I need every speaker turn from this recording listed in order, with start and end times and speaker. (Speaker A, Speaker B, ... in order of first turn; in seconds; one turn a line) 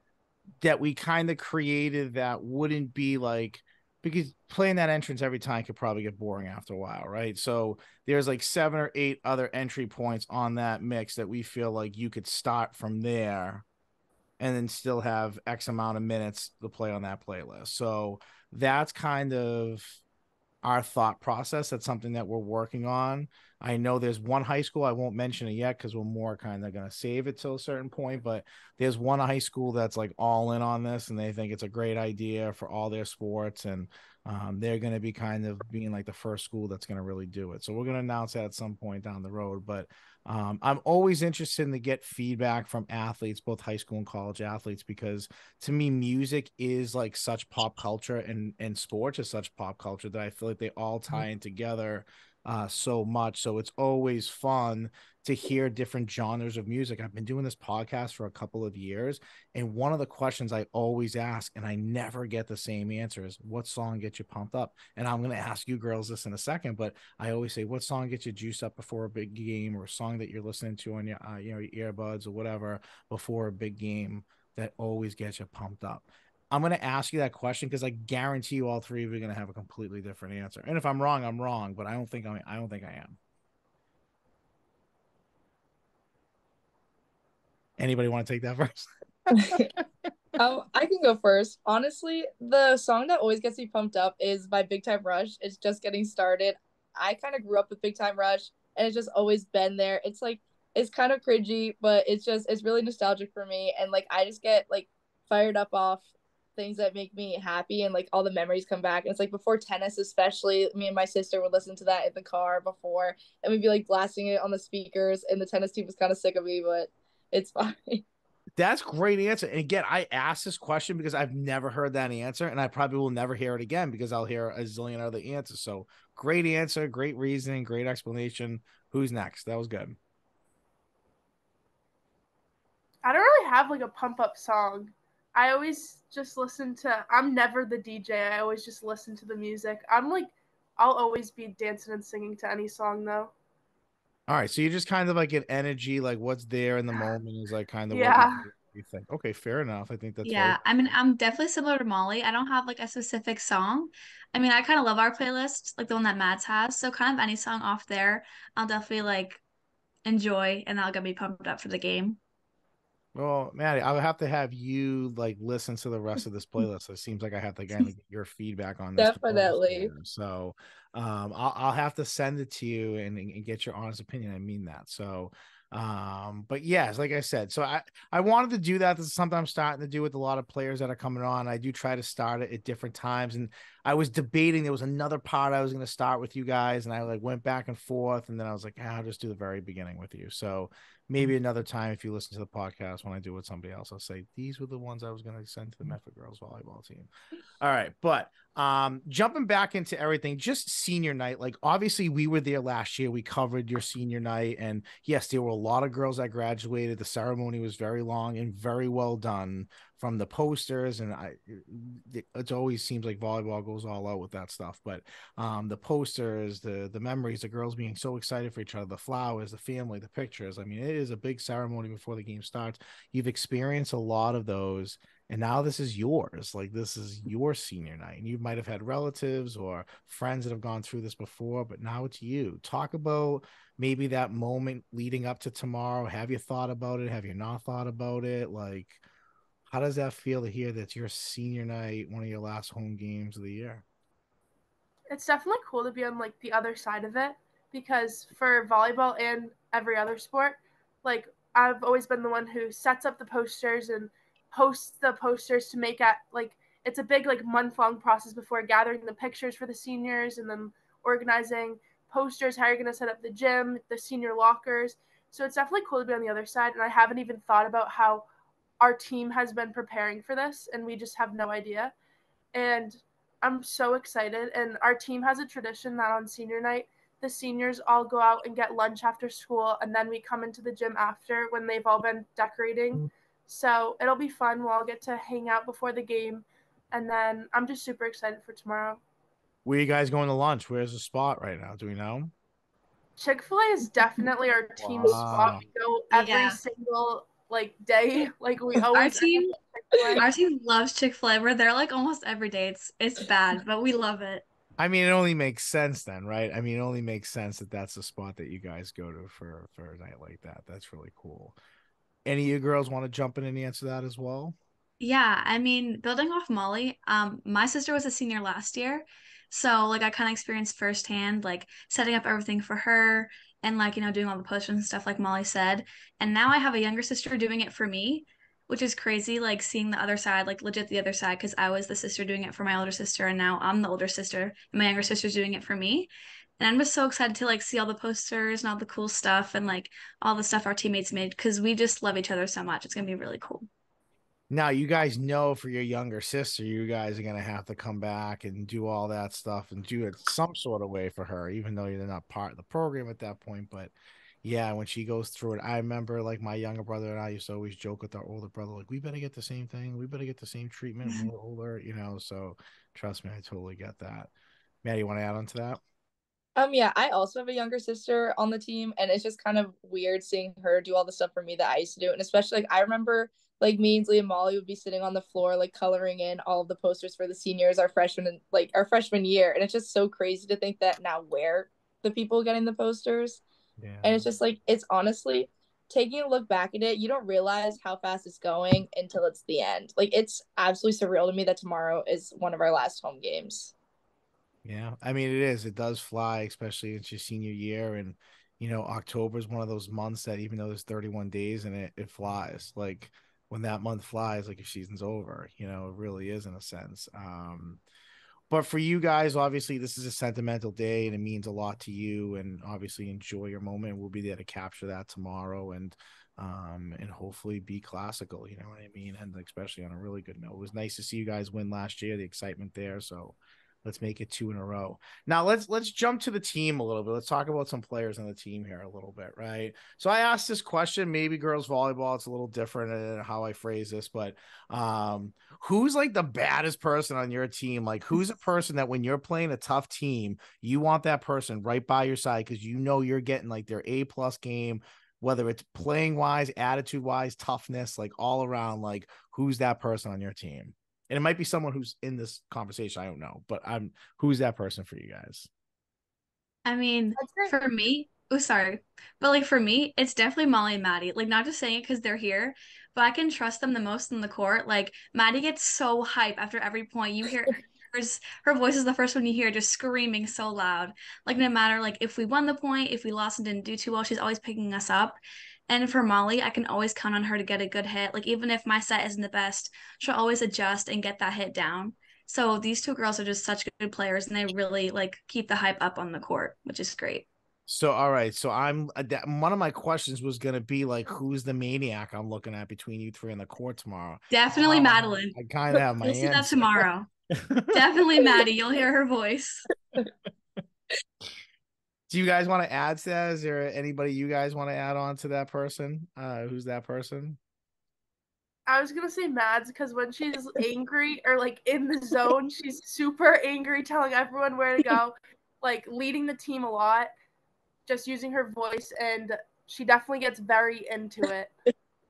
Speaker A: 0.6-13.6
Speaker A: 14.4-20.0
Speaker A: 20.6-83.2
Speaker A: 87.8-89.8
Speaker B: 89.3-89.7
Speaker B: 90.4-118.0
Speaker A: 118.6-130.0
Speaker C: 133.0-143.3
Speaker A: 144.3-150.9
Speaker C: 147.9-148.5
Speaker D: 150.2-159.4
Speaker D: 160.0-162.2
Speaker A: 163.1-197.1
Speaker B: 169.0-169.9
Speaker A: 197.6-239.0
Speaker A: 239.7-243.8
Speaker C: 245.1-268.2
Speaker C: 268.8-271.9
Speaker C: 272.5-289.0
Speaker A: 289.6-292.3
Speaker C: 293.2-300.2
Speaker A: 294.8-295.6
Speaker D: 296.1-296.6
Speaker D: 298.9-299.5
Speaker D: 300.1-304.4
Speaker A: 304.8-311.6
Speaker A: 312.2-314.6
Speaker D: 315.0-343.7
Speaker A: 344.5-364.3
Speaker A: 364.8-365.8
Speaker B: 366.6-383.4
Speaker A: 383.8-384.3
Speaker B: 384.0-393.7
Speaker A: 394.6-407.8
Speaker A: 408.5-455.5
Speaker D: 456.6-487.3
Speaker A: 487.7-497.8
Speaker D: 494.3-495.4
Speaker D: 496.0-497.1
Speaker D: 497.7-499.7
Speaker A: 502.1-507.4
Speaker C: 508.7-517.1
Speaker C: 517.9-521.5